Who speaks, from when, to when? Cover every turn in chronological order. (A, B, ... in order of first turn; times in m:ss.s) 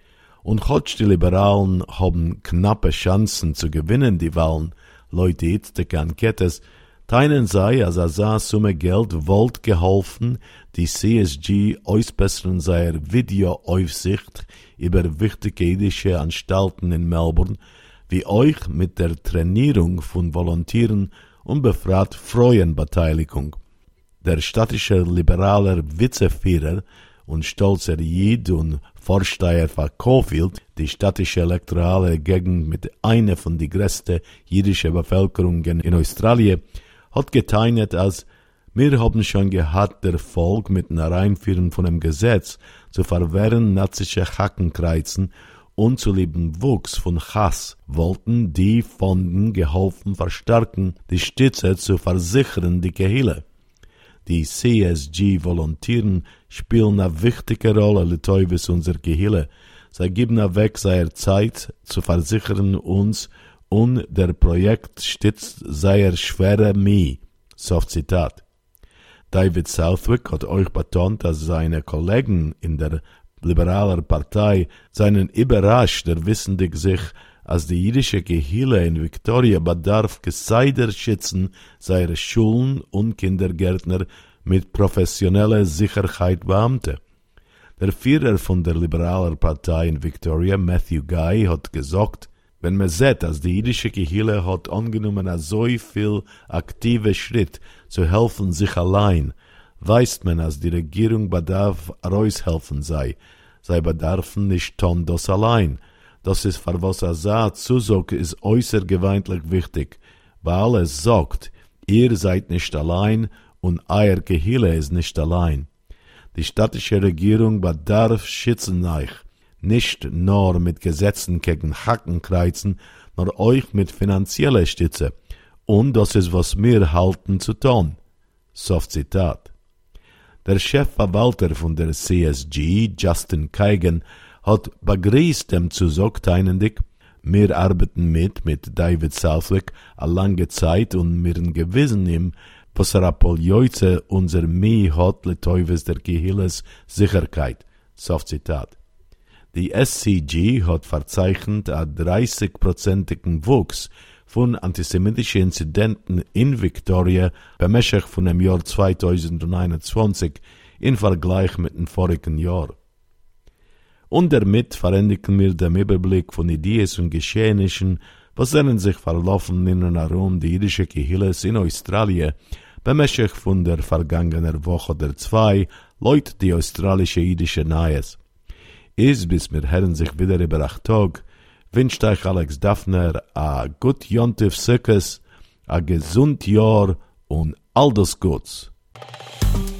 0:00.4-0:23.6 A
0:24.2-0:36.6 A
0:37.1-0:53.4 A
0:54.2-1:08.4 A
1:09.3-1:27.0 A
1:27.8-1:55.7 A
1:56.3-2:05.1 A
2:05.7-2:08.0 A
2:08.5-2:09.5 A
2:10.4-2:28.8 A
2:29.5-2:42.8 A
2:44.1-2:58.2 A
2:59.0-3:08.7 A